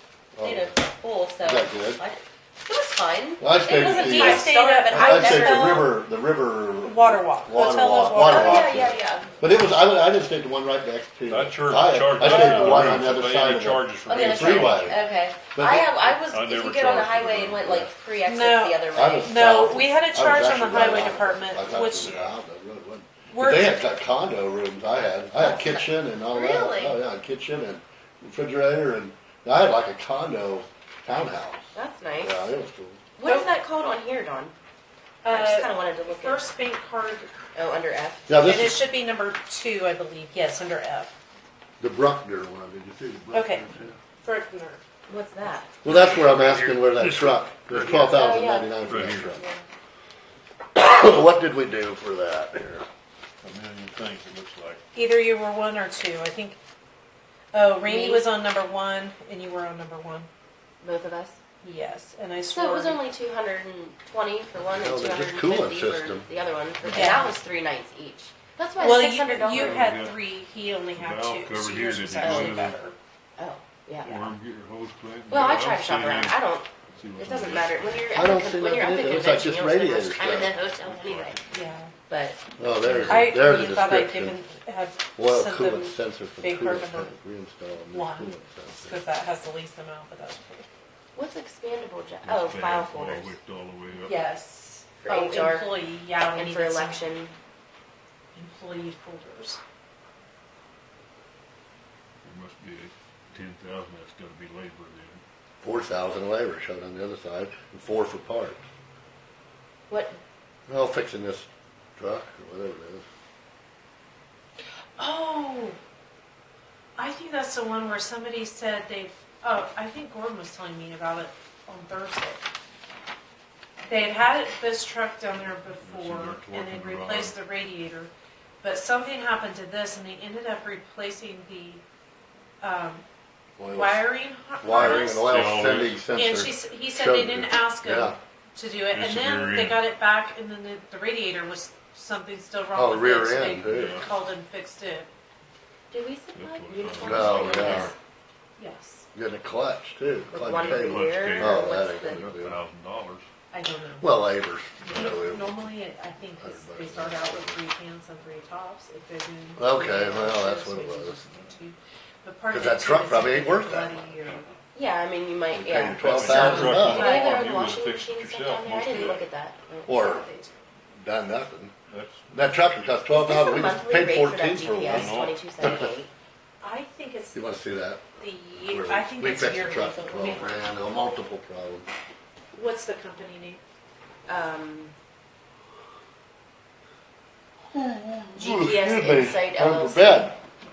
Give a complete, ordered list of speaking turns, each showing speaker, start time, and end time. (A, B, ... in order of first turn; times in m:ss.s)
0:00.4-0:00.7 A
0:00.4-0:05.9 B
0:01.4-0:02.0 A
0:03.4-0:15.0 A
0:03.6-0:05.9 C
0:06.8-0:08.8 C
0:08.1-0:09.3 B
0:11.3-0:14.9 D
0:12.3-0:12.8 C
0:14.1-0:19.4 B
0:15.5-0:16.0 A
0:16.3-0:17.6 D
0:17.6-0:17.9 A
0:18.2-0:22.2 C
0:18.9-0:33.0 A
0:22.0-0:22.3 D
0:23.3-0:23.7 C
0:25.3-0:27.0 B
0:31.7-0:32.4 B
0:33.2-0:34.5 B
0:33.2-0:33.5 C
0:35.2-0:37.3 C
0:35.3-0:36.4 B
0:37.5-0:38.3 B
0:38.3-0:38.8 A
0:38.4-0:41.1 C
0:41.8-0:44.0 A
0:43.3-0:43.6 C
0:44.2-0:44.8 C
0:45.1-0:45.7 B
0:45.8-0:49.4 A
0:45.8-0:48.1 D
0:47.7-0:49.6 B
0:48.8-0:49.3 D
0:50.7-0:52.9 A
0:53.4-0:54.8 D
0:54.9-0:56.6 C
0:57.5-1:00.3 C
0:57.8-0:58.2 B
1:00.8-1:01.4 B
1:01.6-1:03.0 C
1:02.5-1:09.8 B
1:04.7-1:06.3 A
1:06.9-1:07.3 C
1:08.8-1:12.9 C
1:09.5-1:10.2 D
1:10.9-1:12.8 D
1:12.2-1:12.4 B
1:13.4-1:14.3 B
1:14.0-1:18.0 D
1:15.3-1:21.4 B
1:18.1-1:20.6 A
1:20.8-1:21.4 D
1:21.5-1:21.9 C
1:22.1-1:22.4 B
1:22.6-1:24.4 A
1:22.8-1:23.3 D
1:23.1-1:27.1 C
1:25.2-1:29.0 A
1:27.9-1:30.7 C
1:31.1-1:33.4 B
1:32.2-1:34.2 D
1:34.0-1:37.0 C
1:35.0-1:35.7 B
1:36.3-1:37.3 B
1:38.3-1:39.6 C
1:42.2-1:45.2 D
1:45.6-1:48.6 A
1:49.9-1:50.2 B
1:50.7-1:53.0 A
1:55.0-1:55.8 C
1:57.0-2:02.4 C
2:03.9-2:08.1 C
2:05.8-2:07.4 D
2:08.6-2:11.8 C
2:12.6-2:13.0 C
2:13.6-2:14.0 A
2:13.7-2:15.5 C
2:14.6-2:18.1 A
2:14.7-2:16.0 D
2:16.1-2:25.1 C
2:18.9-2:19.8 D
2:22.7-2:24.0 A
2:23.6-2:24.1 D
2:25.9-2:27.9 B
2:26.3-2:27.9 D
2:27.0-2:27.9 A
2:28.6-2:29.1 C
2:29.1-2:32.6 A
2:30.3-2:32.3 B
2:30.6-2:33.2 D
2:33.5-2:34.1 C
2:34.0-2:35.6 A
2:34.8-2:44.5 C
2:36.4-2:37.6 A
2:39.6-2:41.2 A
2:42.5-2:44.0 A
2:44.7-2:49.8 B
2:45.5-2:47.1 A
2:45.9-2:49.2 D
2:46.3-2:47.5 C
2:48.8-2:49.2 C
2:49.8-2:50.6 C
2:49.8-2:50.2 A
2:51.0-2:51.7 A
2:51.9-2:52.5 D
2:52.3-2:55.1 A
2:53.1-2:56.1 B
2:54.9-2:55.4 D
2:56.6-2:57.4 C
2:57.3-3:01.9 A
2:58.2-3:00.6 C
3:02.5-3:03.6 C
3:04.3-3:04.9 B
3:07.7-3:10.4 A
3:08.3-3:10.3 B